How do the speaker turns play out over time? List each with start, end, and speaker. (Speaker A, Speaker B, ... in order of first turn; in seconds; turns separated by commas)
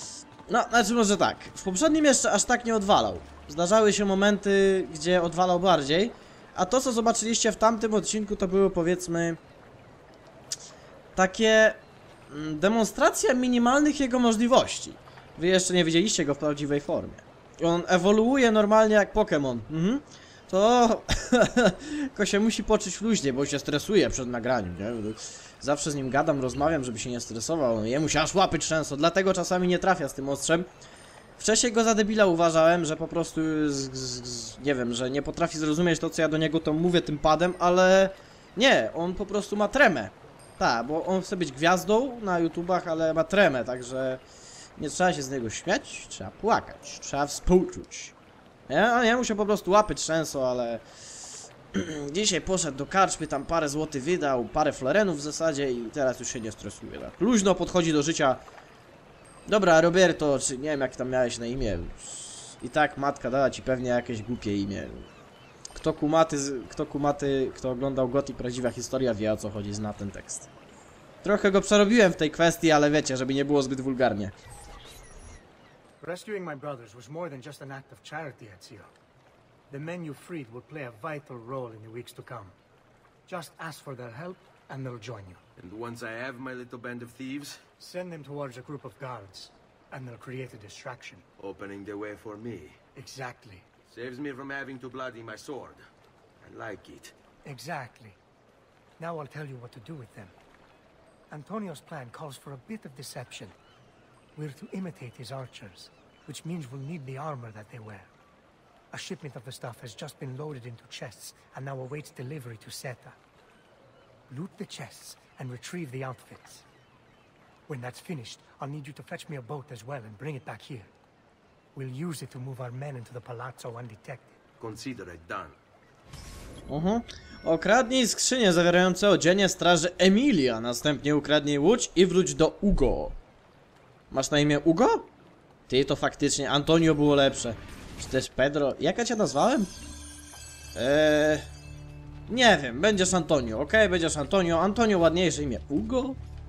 Speaker A: 0.5-9.4, Speaker A: 11.2-30.7, Speaker A: 31.4-44.2, Speaker A: 44.8-48.1, Speaker A: 48.7-50.8, Speaker A: 51.7-58.4, Speaker A: 59.5-65.1, Speaker A: 65.7-70.5, Speaker A: 71.2-74.3, Speaker B: 76.0-78.9, Speaker B: 79.7-82.5, Speaker B: 83.2-85.4, Speaker C: 85.6-87.6, Speaker B: 87.8-91.2, Speaker C: 91.4-92.8, Speaker B: 93.0-93.6, Speaker C: 93.9-95.8, Speaker C: 96.4-97.1, Speaker B: 97.4-98.2, Speaker B: 99.0-100.3, Speaker B: 101.3-103.5, Speaker B: 104.3-108.1, Speaker B: 108.9-113.2, Speaker B: 114.3-116.6, Speaker B: 117.7-120.9, Speaker B: 121.7-124.4, Speaker C: 124.6-125.5, Speaker A: 126.7-133.2, Speaker A: 134.1-135.1, Speaker A: 135.7-139.7, Speaker A: 140.7-141.4, Speaker A: 142.3-146.2